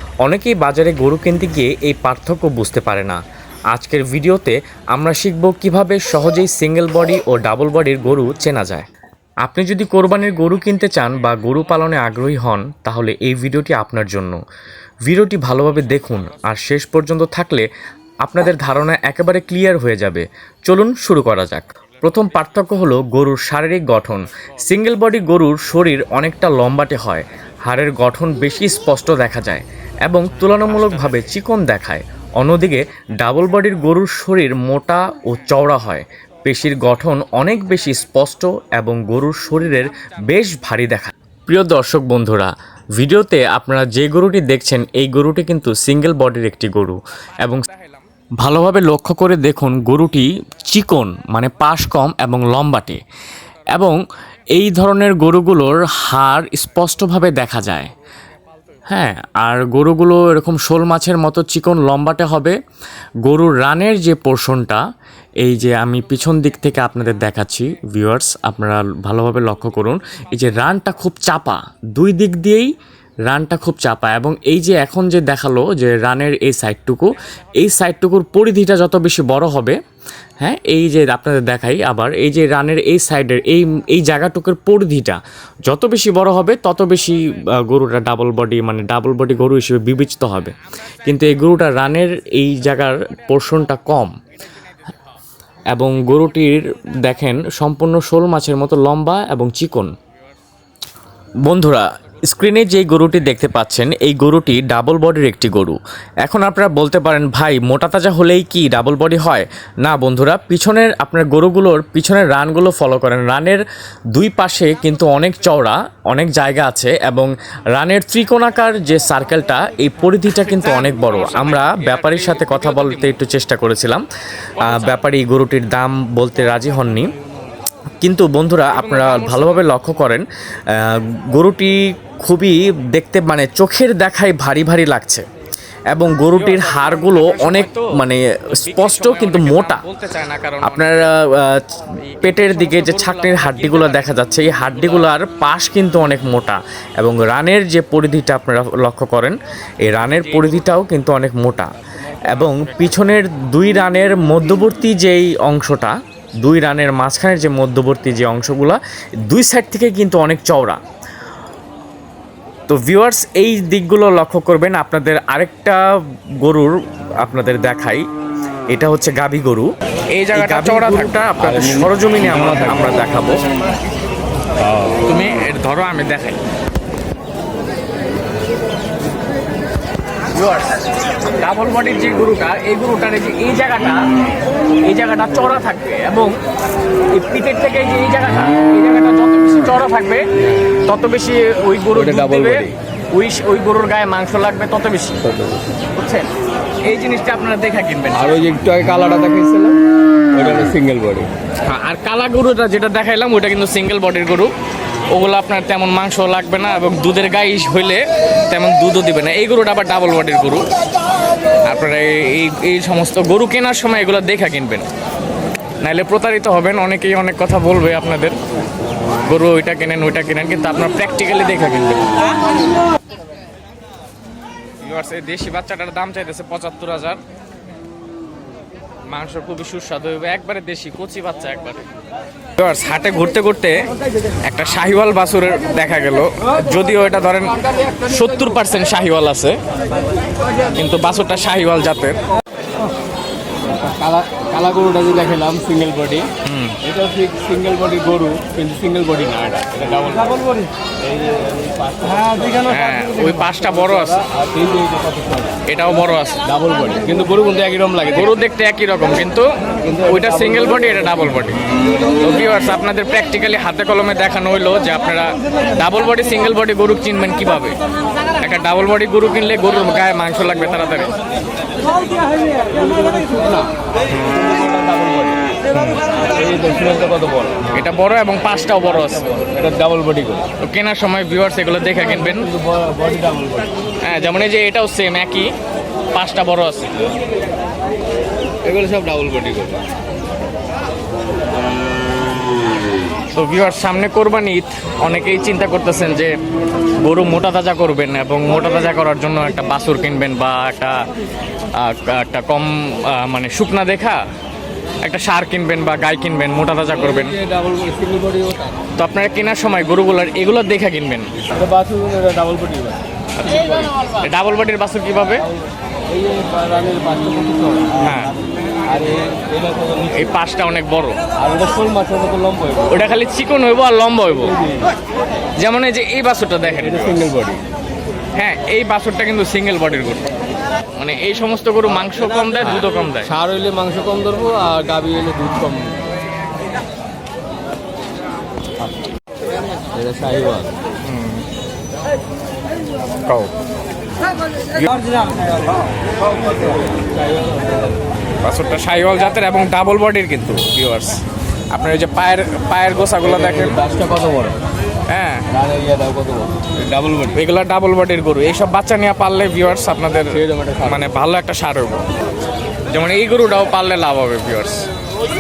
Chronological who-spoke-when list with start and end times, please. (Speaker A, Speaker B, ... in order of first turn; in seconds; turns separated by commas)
Speaker A: 0.2-3.2, Speaker A: 3.7-8.9, Speaker A: 9.4-14.4, Speaker A: 15.1-17.7, Speaker A: 18.2-47.6, Speaker B: 30.4-31.3, Speaker B: 47.7-48.0, Speaker A: 48.4-53.0, Speaker A: 53.7-54.0, Speaker A: 54.5-57.9, Speaker A: 58.9-62.6, Speaker A: 63.2-64.8, Speaker A: 65.4-72.7, Speaker A: 73.3-79.8, Speaker A: 80.4-94.1, Speaker A: 95.7-99.9, Speaker A: 101.4-113.6, Speaker A: 114.2-124.0, Speaker B: 120.3-123.2, Speaker B: 124.6-125.0, Speaker A: 124.6-127.1, Speaker A: 128.0-135.2, Speaker B: 128.7-129.7, Speaker A: 135.9-139.8, Speaker B: 136.3-137.9, Speaker B: 138.5-140.9, Speaker A: 140.6-151.7, Speaker B: 142.0-145.1, Speaker B: 150.1-150.7, Speaker A: 152.3-160.8, Speaker B: 152.3-152.8, Speaker A: 162.7-165.8, Speaker A: 166.4-168.0, Speaker A: 168.7-169.7, Speaker B: 170.2-171.3, Speaker A: 170.3-173.4, Speaker C: 171.4-173.0, Speaker C: 174.6-174.9, Speaker B: 175.0-176.4, Speaker B: 180.3-184.1, Speaker B: 184.8-186.3, Speaker B: 187.1-190.2, Speaker B: 190.8-195.3, Speaker C: 191.9-192.7, Speaker C: 195.2-195.7, Speaker B: 195.9-196.3, Speaker B: 196.8-198.4, Speaker C: 198.1-199.8, Speaker C: 200.3-201.3, Speaker B: 201.6-204.5, Speaker B: 205.1-210.7, Speaker B: 211.7-214.9, Speaker B: 215.8-218.4, Speaker B: 219.2-222.1, Speaker B: 224.8-227.2, Speaker B: 229.1-231.9, Speaker B: 232.6-233.8, Speaker B: 234.4-239.6, Speaker B: 240.7-242.2, Speaker C: 243.6-246.3, Speaker B: 246.4-246.8, Speaker C: 246.8-250.4, Speaker C: 251.0-252.7, Speaker B: 252.7-254.2, Speaker C: 253.8-255.6, Speaker B: 255.7-256.4, Speaker C: 256.4-258.3, Speaker B: 258.1-259.5, Speaker C: 259.8-261.5, Speaker B: 260.0-261.6, Speaker B: 262.2-267.8, Speaker B: 268.4-271.1, Speaker C: 272.7-275.4, Speaker C: 276.2-277.8, Speaker B: 277.7-279.3, Speaker C: 278.9-280.5, Speaker B: 280.6-282.5, Speaker C: 282.0-283.7, Speaker B: 284.0-285.5, Speaker B: 286.1-286.9, Speaker C: 288.6-289.8, Speaker B: 293.3-296.3, Speaker B: 297.0-301.0, Speaker B: 301.8-304.2, Speaker B: 305.0-307.4, Speaker C: 306.9-308.8, Speaker B: 309.0-311.3, Speaker C: 311.5-313.0, Speaker B: 313.4-315.4, Speaker C: 315.4-318.2, Speaker B: 318.0-318.3, Speaker C: 318.8-320.3, Speaker B: 320.1-321.2, Speaker C: 321.4-323.1, Speaker B: 322.9-324.5, Speaker C: 324.5-324.9, Speaker B: 325.6-327.3, Speaker C: 326.7-327.6, Speaker B: 328.4-330.3, Speaker B: 330.9-333.3, Speaker C: 332.6-336.0, Speaker C: 339.9-340.8, Speaker B: 341.0-341.4, Speaker B: 343.2-343.5, Speaker C: 346.5-348.0, Speaker B: 348.4-353.8, Speaker C: 353.2-354.6, Speaker B: 355.1-355.4, Speaker C: 355.5-357.4, Speaker B: 357.3-362.0, Speaker C: 360.3-361.1, Speaker B: 362.9-364.8